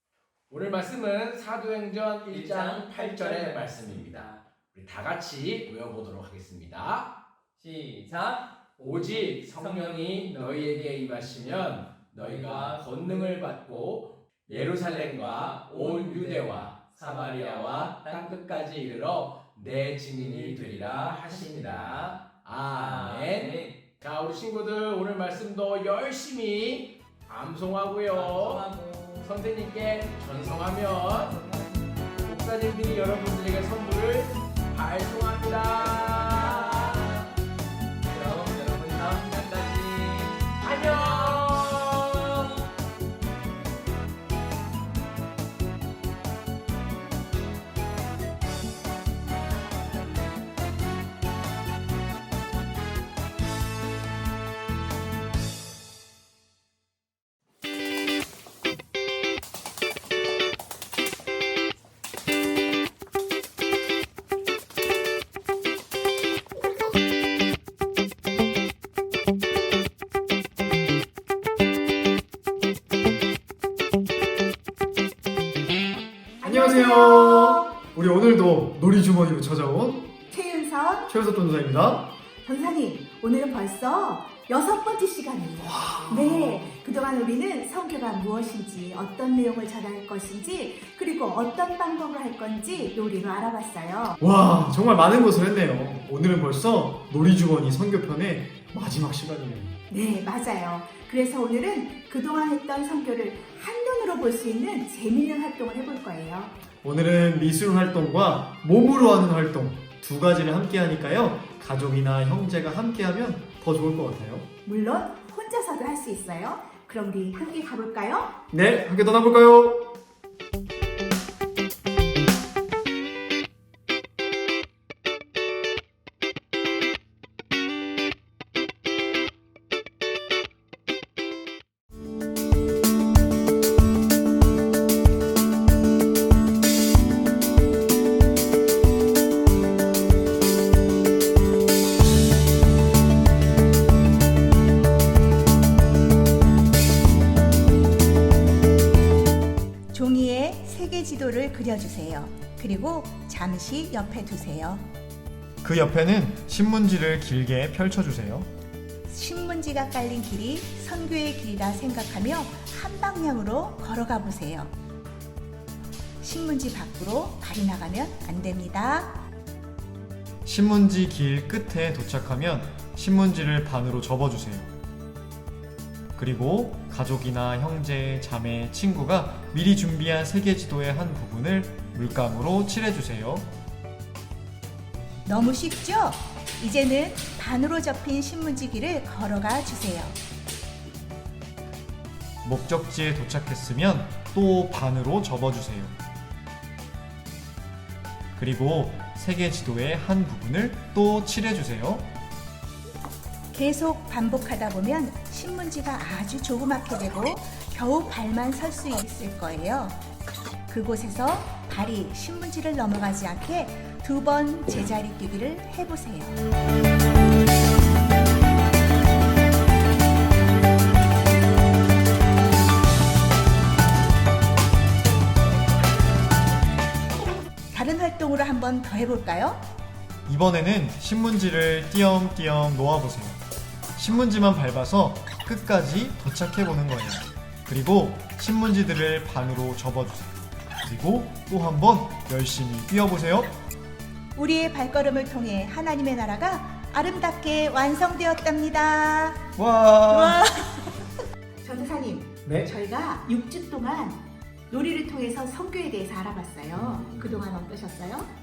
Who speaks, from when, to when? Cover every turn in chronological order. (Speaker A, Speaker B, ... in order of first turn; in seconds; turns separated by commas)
Speaker A: 0.5-7.1, Speaker B: 2.3-4.4, Speaker B: 7.5-10.8, Speaker A: 8.8-28.6, Speaker B: 12.1-13.9, Speaker B: 14.4-18.4, Speaker B: 20.1-23.8, Speaker B: 28.1-29.3, Speaker A: 29.2-31.4, Speaker B: 31.1-31.9, Speaker A: 32.2-37.1, Speaker B: 35.8-37.2, Speaker B: 38.1-41.4, Speaker A: 40.6-42.5, Speaker C: 76.4-77.6, Speaker D: 76.4-80.1, Speaker C: 80.2-81.1, Speaker D: 81.1-82.1, Speaker C: 82.4-94.2, Speaker D: 85.6-86.7, Speaker D: 94.2-99.8, Speaker C: 99.9-106.5, Speaker D: 106.8-114.5, Speaker C: 114.7-118.3, Speaker D: 118.5-119.9, Speaker C: 149.9-154.8, Speaker D: 155.6-158.5, Speaker C: 159.1-164.7, Speaker C: 166.2-169.1, Speaker D: 170.4-174.7, Speaker D: 176.2-183.5, Speaker C: 185.2-190.1, Speaker D: 192.4-195.9, Speaker D: 198.3-202.1, Speaker C: 203.5-210.0, Speaker C: 210.7-216.4, Speaker C: 227.7-229.6, Speaker D: 230.3-233.4, Speaker D: 233.9-240.3, Speaker D: 240.8-243.5, Speaker C: 244.3-249.4, Speaker D: 249.6-250.5, Speaker C: 250.1-250.5, Speaker C: 251.6-258.3, Speaker D: 256.7-257.4